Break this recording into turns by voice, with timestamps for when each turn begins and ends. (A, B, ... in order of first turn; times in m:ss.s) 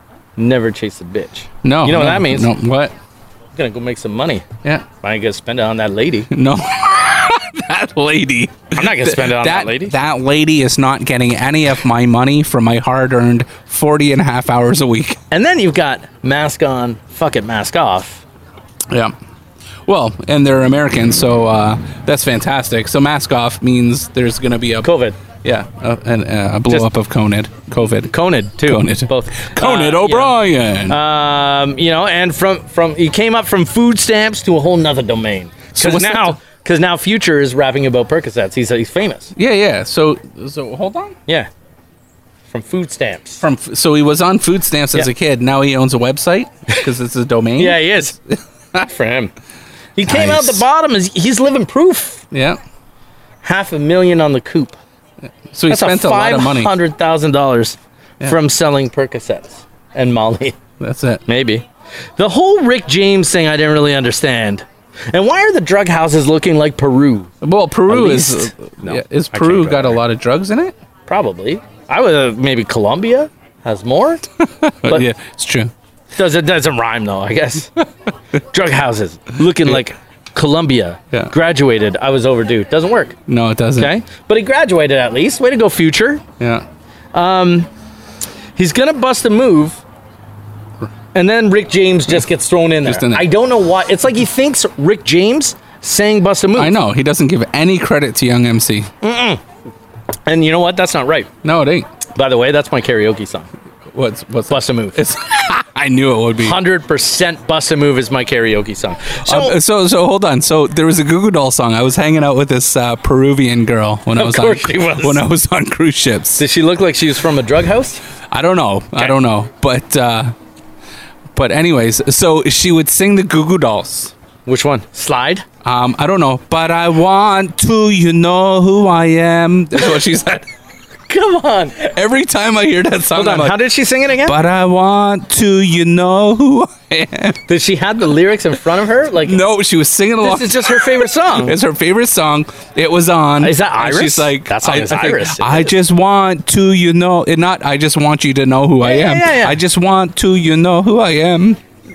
0:00.4-0:02.5 A
0:01.6-0:02.9 B
0:03.5-0:04.5 A
0:05.0-0:06.3 A
0:06.3-0:15.2 B
0:08.7-0:09.9 A
0:15.3-0:18.2 A
0:19.8-0:24.9 B
0:24.8-0:25.2 A
0:25.4-0:31.0 B
0:28.1-0:39.3 A
0:35.7-0:36.4 B
0:39.4-0:41.2 B
0:42.5-0:43.4 A
0:43.4-0:48.8 B
0:47.6-0:48.1 A
0:48.8-0:49.3 A
0:50.0-0:52.2 A
0:50.0-0:50.6 B
0:52.3-0:52.6 B
0:53.4-0:54.8 A
0:55.5-0:56.7 B
0:55.7-1:00.6 A
1:00.8-1:01.2 B
1:01.3-1:01.6 A
1:02.2-1:07.3 A
1:07.4-1:10.7 B
1:07.9-1:10.0 A
1:11.1-1:14.2 A
1:14.4-1:15.7 B
1:16.1-1:17.8 A
1:18.4-1:23.2 A
1:23.3-1:23.9 B
1:23.8-1:26.2 A
1:26.4-1:26.6 B
1:27.1-1:27.7 A
1:28.6-1:29.8 A
1:31.1-1:36.7 A
1:32.8-1:33.3 B
1:36.6-1:38.9 B
1:39.0-1:39.4 A
1:40.3-1:41.3 A
1:41.4-1:41.9 B
1:42.1-1:43.5 A
1:43.9-1:46.6 B
1:44.5-1:45.0 A
1:46.4-1:49.6 A
1:49.2-1:56.4 B
1:54.1-1:55.2 A
1:56.4-1:58.0 A
1:58.3-2:00.3 B
2:01.3-2:04.1 B
2:04.4-2:05.4 A
2:05.6-2:10.5 B
2:11.1-2:11.9 A
2:11.8-2:17.4 B
2:13.1-2:14.4 A
2:17.5-2:19.4 A
2:19.2-2:31.6 B
2:20.2-2:21.6 A
2:23.4-2:25.7 A
2:28.8-2:29.6 A